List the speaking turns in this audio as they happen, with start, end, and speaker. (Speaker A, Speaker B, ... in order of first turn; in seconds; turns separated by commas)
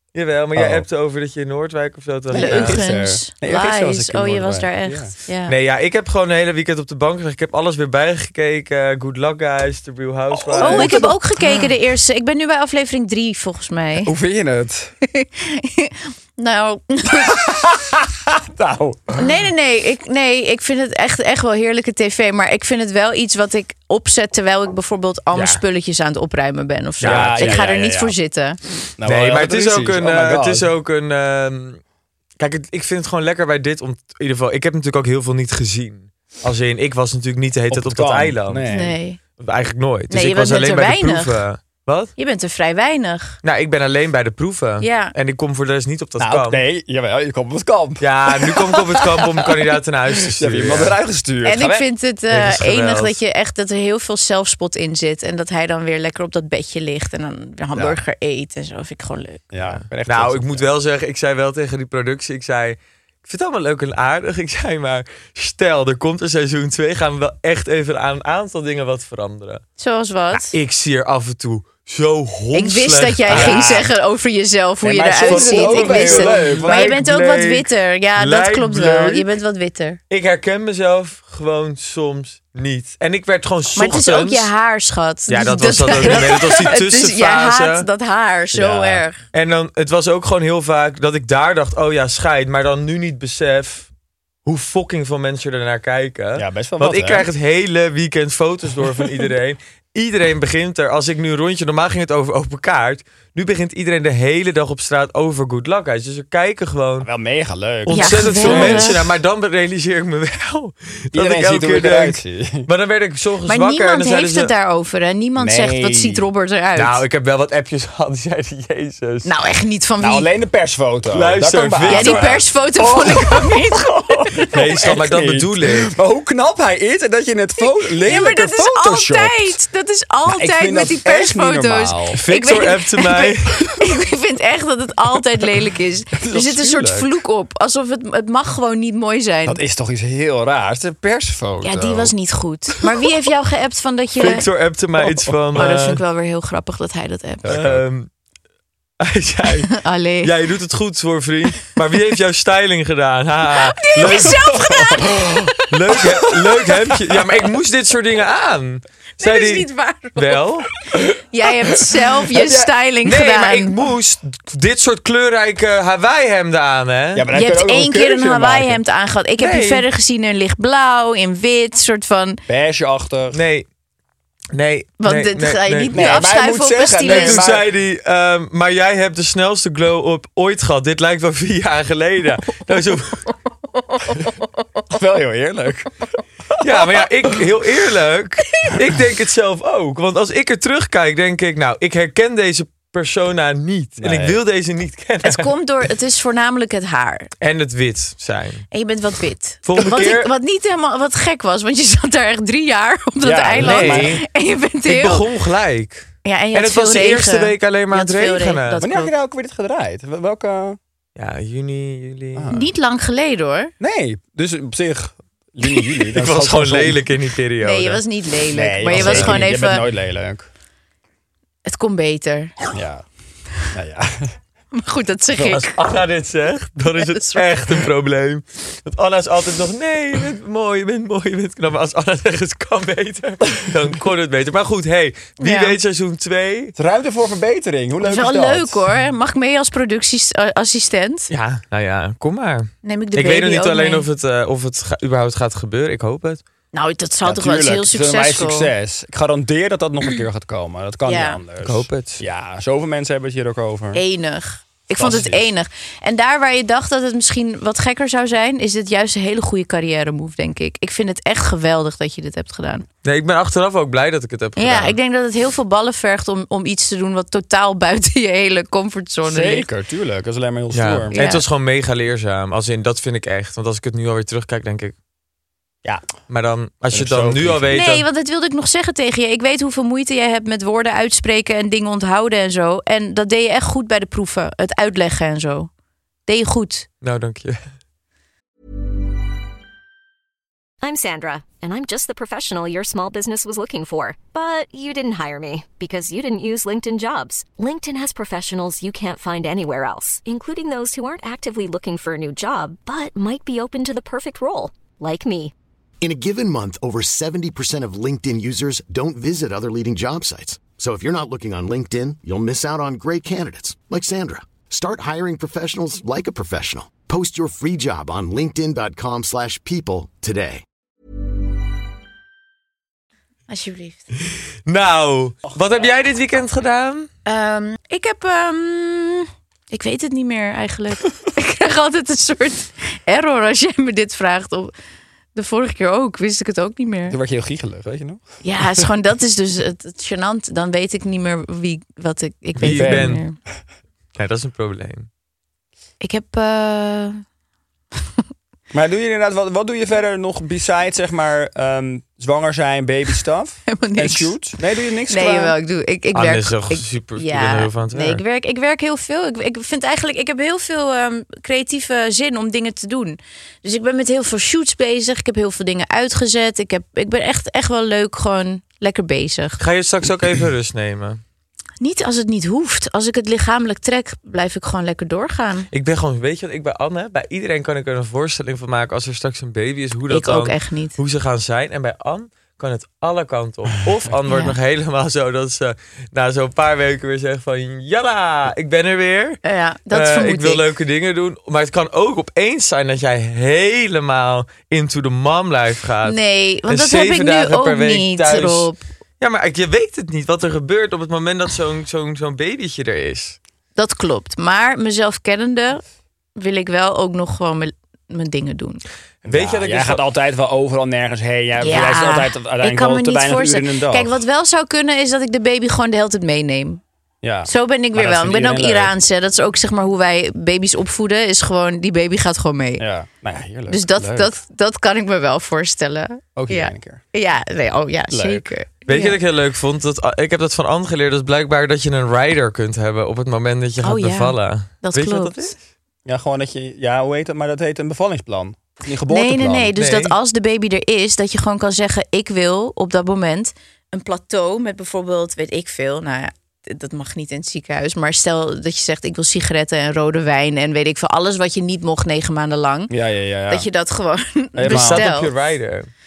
Speaker A: 0.1-2.8, Speaker B: 0.5-0.8, Speaker B: 2.3-5.2, Speaker C: 2.3-5.5, Speaker A: 5.5-11.1, Speaker B: 10.3-11.7, Speaker C: 10.6-14.1, Speaker B: 14.0-14.9, Speaker C: 15.1-17.4, Speaker B: 17.2-19.3, Speaker C: 19.2-28.6, Speaker A: 25.3-25.6, Speaker A: 27.0-27.6, Speaker B: 27.0-28.1, Speaker B: 29.0-30.7, Speaker A: 29.0-31.8, Speaker A: 32.4-38.6, Speaker B: 37.7-39.0, Speaker C: 38.7-39.2, Speaker A: 39.4-42.1, Speaker C: 40.1-41.4, Speaker C: 42.2-43.4, Speaker A: 43.4-46.6, Speaker C: 44.8-45.1, Speaker B: 46.2-51.9, Speaker A: 48.0-51.0, Speaker C: 51.4-59.4, Speaker A: 52.3-53.2, Speaker B: 59.5-60.6, Speaker A: 59.6-69.6, Speaker C: 69.8-70.5, Speaker A: 70.3-73.9, Speaker C: 72.5-80.0, Speaker B: 73.3-73.9, Speaker B: 74.8-77.0, Speaker A: 75.2-79.2, Speaker A: 80.1-84.5, Speaker C: 83.8-89.2, Speaker A: 85.3-87.9, Speaker B: 86.0-86.5, Speaker B: 88.5-89.0, Speaker A: 89.3-93.9, Speaker A: 94.4-107.1, Speaker B: 96.3-97.3, Speaker B: 107.0-109.0, Speaker A: 107.8-114.5, Speaker C: 107.9-109.0, Speaker B: 111.1-112.7, Speaker C: 113.5-117.0, Speaker B: 115.4-116.2, Speaker A: 116.8-119.3, Speaker C: 119.2-120.3, Speaker B: 120.0-129.6, Speaker A: 121.1-122.4, Speaker C: 121.9-124.6, Speaker A: 124.5-125.9, Speaker C: 128.0-139.6, Speaker B: 130.3-132.2, Speaker A: 132.2-133.7, Speaker B: 136.2-137.1, Speaker B: 139.4-142.1, Speaker C: 141.6-144.4, Speaker A: 144.2-146.0, Speaker B: 145.1-145.4, Speaker C: 145.5-147.5, Speaker B: 147.4-147.8, Speaker A: 147.5-148.1, Speaker A: 149.0-154.7, Speaker C: 149.7-150.3, Speaker C: 153.5-156.0, Speaker B: 155.0-157.2, Speaker A: 155.7-160.7, Speaker C: 159.2-160.4, Speaker C: 161.2-163.8, Speaker B: 162.3-162.7, Speaker A: 163.0-167.3, Speaker B: 167.1-168.8, Speaker C: 167.3-172.4, Speaker A: 169.4-169.8, Speaker B: 172.5-173.4, Speaker A: 173.3-173.7, Speaker A: 174.5-176.2, Speaker C: 175.0-177.4, Speaker B: 175.9-177.7, Speaker A: 177.1-183.3, Speaker C: 183.9-184.3, Speaker B: 184.9-185.9, Speaker A: 186.6-195.5, Speaker B: 194.0-194.4, Speaker C: 195.2-197.3, Speaker A: 197.4-198.7, Speaker C: 198.7-205.2, Speaker A: 199.6-200.3, Speaker B: 203.2-204.2, Speaker A: 203.6-204.2, Speaker A: 204.8-208.8, Speaker C: 206.2-209.1, Speaker B: 208.8-210.8, Speaker A: 211.2-212.5, Speaker B: 212.3-212.7, Speaker C: 212.5-213.7, Speaker B: 213.8-217.0, Speaker A: 216.1-218.0, Speaker C: 217.6-219.8, Speaker B: 218.5-220.4, Speaker A: 218.9-219.4, Speaker C: 221.7-222.5, Speaker B: 222.7-223.1, Speaker B: 223.6-224.3, Speaker C: 224.7-225.8, Speaker A: 225.3-236.7, Speaker C: 227.0-227.5, Speaker C: 235.4-235.8, Speaker B: 236.8-238.8, Speaker C: 238.0-241.3, Speaker A: 241.3-246.4, Speaker C: 242.8-244.1, Speaker C: 246.7-248.7, Speaker B: 247.2-254.0, Speaker C: 251.1-251.4, Speaker A: 251.6-252.2, Speaker C: 253.9-262.8, Speaker B: 255.0-255.4, Speaker A: 263.0-265.0, Speaker C: 264.6-269.7, Speaker B: 269.2-271.2, Speaker A: 270.7-274.9, Speaker C: 271.1-271.4, Speaker A: 276.3-278.0, Speaker B: 276.9-277.8, Speaker C: 277.7-285.7, Speaker C: 286.3-286.9, Speaker A: 287.0-287.7, Speaker D: 290.8-305.5, Speaker E: 306.0-320.6, Speaker C: 323.5-324.0, Speaker A: 324.6-327.1, Speaker C: 327.2-334.7, Speaker C: 335.3-337.2, Speaker B: 337.1-338.9, Speaker C: 338.4-343.4, Speaker A: 342.6-343.2, Speaker B: 342.6-343.1, Speaker A: 344.1-345.1, Speaker C: 346.0-347.2, Speaker B: 348.7-355.6, Speaker C: 353.7-354.4, Speaker C: 355.1-369.6, Speaker A: 356.1-358.2, Speaker A: 369.6-371.2, Speaker C: 371.8-375.7, Speaker A: 375.7-389.4, Speaker C: 380.1-380.9, Speaker C: 384.3-384.6, Speaker C: 389.4-390.6, Speaker A: 389.9-403.4, Speaker C: 396.0-398.8, Speaker C: 403.8-405.8, Speaker C: 406.4-408.8, Speaker A: 409.2-410.0, Speaker B: 409.2-414.1, Speaker C: 411.6-416.8, Speaker B: 417.2-418.9, Speaker C: 417.4-422.8, Speaker B: 422.8-424.3, Speaker C: 423.7-429.2, Speaker B: 426.4-427.0, Speaker B: 428.1-428.5, Speaker A: 428.9-435.6, Speaker C: 433.8-435.5, Speaker B: 436.1-439.7, Speaker C: 439.1-452.9, Speaker A: 439.8-440.1, Speaker B: 452.9-453.7, Speaker C: 453.5-455.3, Speaker B: 454.5-455.1, Speaker A: 454.7-455.9